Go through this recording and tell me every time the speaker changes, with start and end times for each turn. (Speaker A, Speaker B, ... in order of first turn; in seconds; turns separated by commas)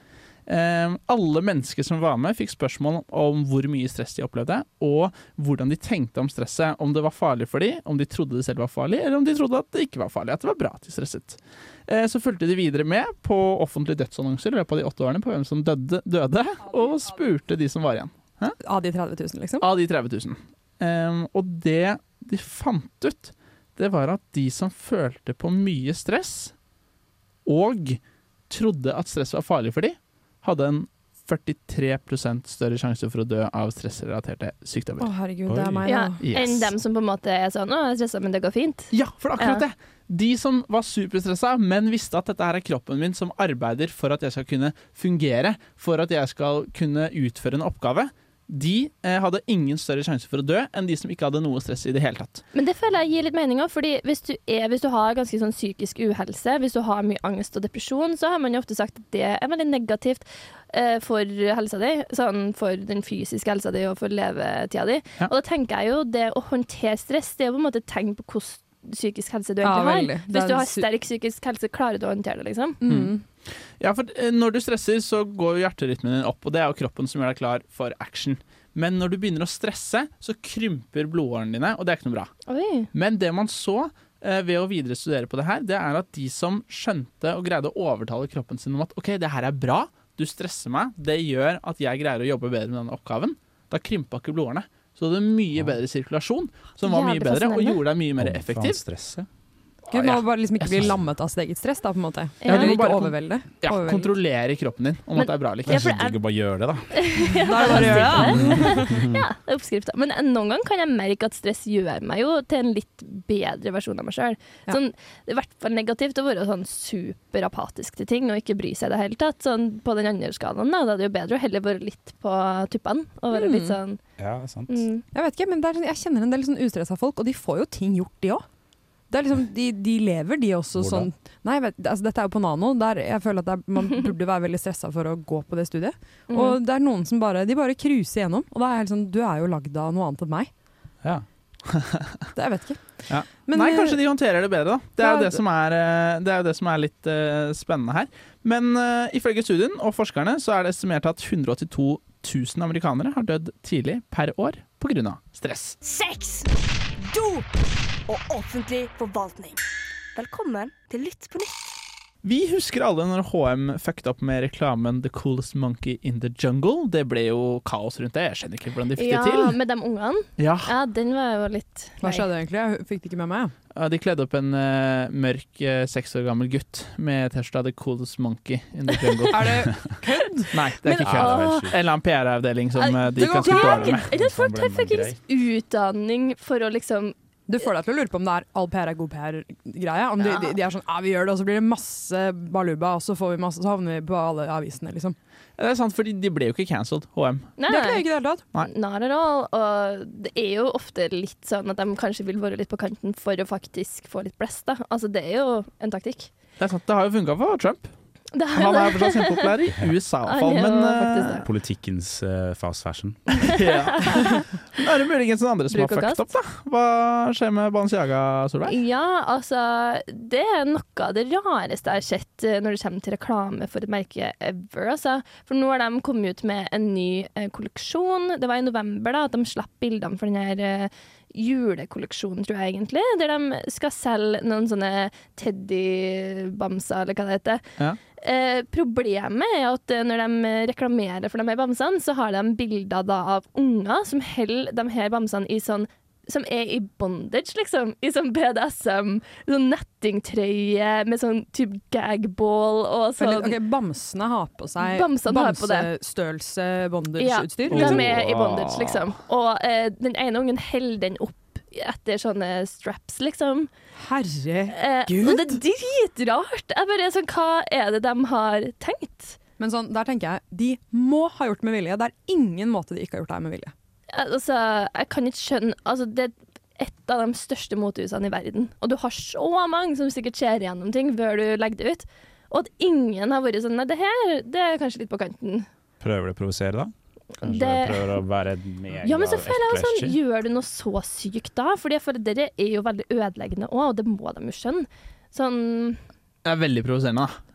Speaker A: 0.5-18.6, Speaker B: 18.6-19.7, Speaker A: 19.6-26.5, Speaker A: 27.4-35.1, Speaker B: 35.0-36.2, Speaker C: 35.5-35.9, Speaker D: 35.9-39.6, Speaker A: 36.2-36.8, Speaker A: 38.9-52.4, Speaker D: 52.5-72.8, Speaker B: 69.6-70.9, Speaker B: 72.8-73.2, Speaker A: 72.8-73.1, Speaker A: 73.8-82.3, Speaker D: 82.5-82.9, Speaker A: 82.9-98.8, Speaker D: 96.8-97.8, Speaker C: 98.2-99.3, Speaker B: 99.9-104.2, Speaker A: 99.9-100.9, Speaker D: 102.4-102.9, Speaker A: 102.5-106.0, Speaker D: 105.2-106.2, Speaker C: 105.7-109.3, Speaker D: 106.9-124.0, Speaker B: 107.2-109.0, Speaker B: 123.3-123.8, Speaker C: 124.2-124.8, Speaker D: 124.7-125.0, Speaker B: 125.1-128.4, Speaker B: 129.1-140.5, Speaker C: 130.8-131.1, Speaker D: 136.3-136.6, Speaker A: 141.7-142.1, Speaker B: 142.3-144.0, Speaker A: 143.1-155.8, Speaker B: 145.0-145.4, Speaker E: 155.8-157.5, Speaker E: 158.1-159.6, Speaker E: 160.2-161.8, Speaker A: 162.2-169.6, Speaker D: 169.0-172.3, Speaker A: 170.4-170.7, Speaker B: 172.0-173.5, Speaker A: 173.7-179.7, Speaker D: 178.9-179.3, Speaker B: 179.3-180.5, Speaker A: 180.5-184.1, Speaker D: 180.8-181.7, Speaker C: 181.0-181.8, Speaker D: 182.8-187.2, Speaker B: 183.2-184.0, Speaker C: 184.1-185.2, Speaker B: 187.5-195.2, Speaker D: 190.2-190.5, Speaker A: 195.6-197.5, Speaker D: 197.6-198.1, Speaker B: 197.7-198.4, Speaker D: 198.6-206.3, Speaker A: 206.6-207.9, Speaker D: 208.3-209.6, Speaker A: 208.5-211.4, Speaker D: 210.2-211.5, Speaker C: 211.4-213.5, Speaker A: 213.4-218.8, Speaker D: 213.5-214.4, Speaker D: 215.7-216.3, Speaker D: 218.7-237.6, Speaker D: 238.2-253.6, Speaker B: 253.2-258.0, Speaker D: 254.8-255.9, Speaker D: 257.2-263.7, Speaker A: 257.7-258.9, Speaker B: 264.0-265.6, Speaker D: 264.7-269.4, Speaker B: 269.6-273.7, Speaker D: 274.1-285.7, Speaker C: 286.0-290.2, Speaker D: 287.4-288.2, Speaker D: 289.0-296.0, Speaker A: 296.4-297.4